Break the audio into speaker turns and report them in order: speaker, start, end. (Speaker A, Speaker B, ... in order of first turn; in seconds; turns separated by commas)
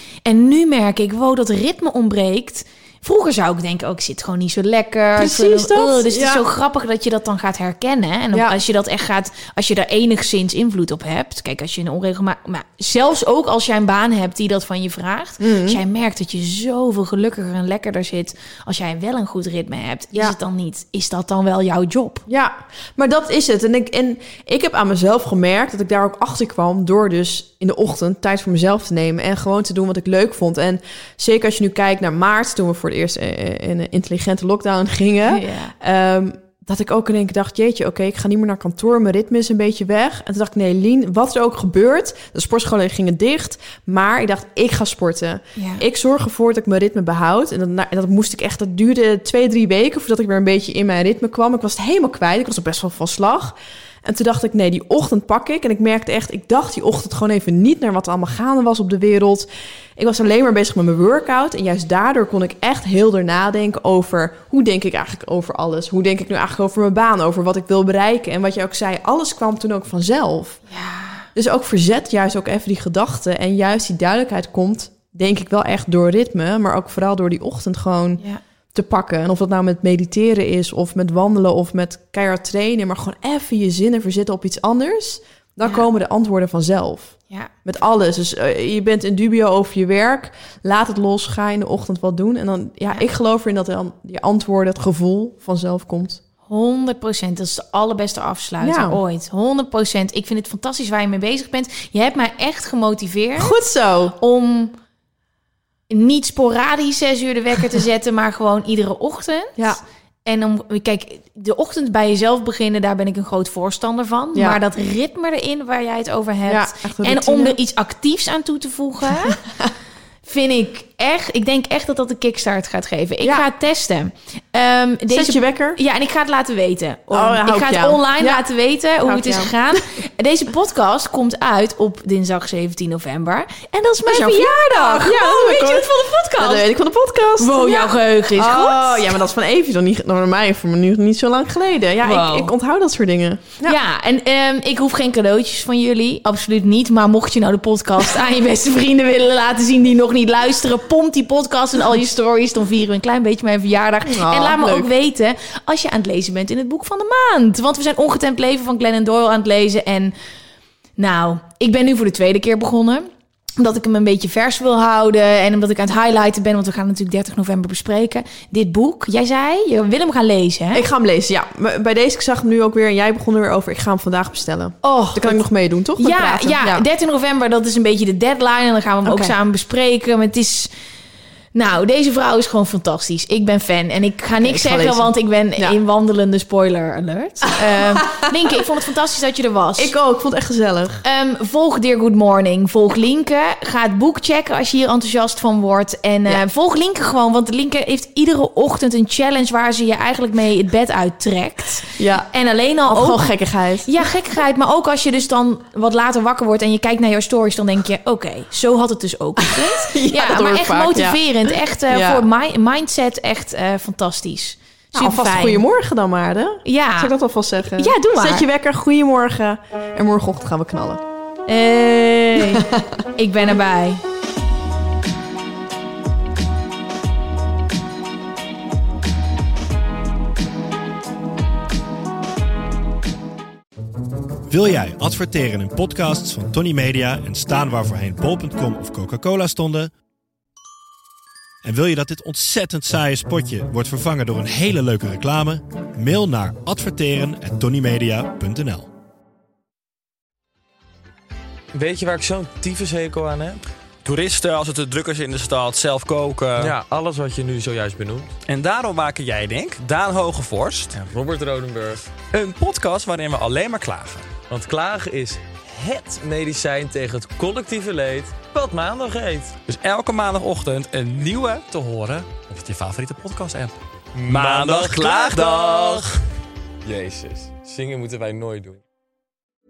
Speaker A: 0.2-22.2, Speaker B: 5.2-6.4, Speaker B: 15.4-15.8, Speaker B: 22.3-70.6, Speaker A: 35.2-35.7, Speaker A: 45.6-45.8, Speaker A: 70.7-71.3, Speaker B: 71.3-78.2, Speaker B: 78.7-96.2, Speaker A: 96.5-103.6, Speaker B: 98.6-99.0, Speaker B: 103.4-104.2, Speaker A: 104.2-104.7, Speaker A: 105.9-119.4, Speaker B: 116.5-117.6, Speaker A: 120.3-136.7, Speaker B: 125.1-125.8, Speaker B: 127.1-128.4, Speaker B: 129.0-129.8, Speaker B: 134.1-143.8, Speaker A: 137.4-139.2, Speaker A: 142.0-142.5, Speaker A: 143.6-160.2, Speaker B: 154.1-154.9, Speaker A: 161.0-170.9, Speaker B: 170.7-176.8, Speaker A: 174.8-175.4, Speaker A: 176.0-180.7, Speaker B: 179.0-179.3, Speaker A: 181.6-189.9, Speaker B: 184.4-185.8, Speaker B: 187.6-188.3, Speaker B: 189.8-191.0, Speaker A: 191.0-203.3, Speaker B: 202.0-202.3, Speaker B: 202.9-203.9, Speaker A: 203.8-215.6, Speaker B: 209.4-212.2, Speaker B: 214.9-221.0, Speaker A: 216.7-218.5, Speaker A: 221.5-224.0, Speaker B: 222.4-222.9, Speaker C: 234.5-239.9, Speaker C: 241.6-248.9, Speaker D: 251.7-253.6, Speaker E: 254.0-256.8, Speaker D: 256.6-258.4, Speaker E: 258.4-261.0, Speaker D: 260.9-262.1, Speaker E: 262.3-264.3, Speaker D: 264.5-269.6, Speaker E: 269.7-276.1, Speaker D: 274.2-276.1, Speaker D: 276.9-278.8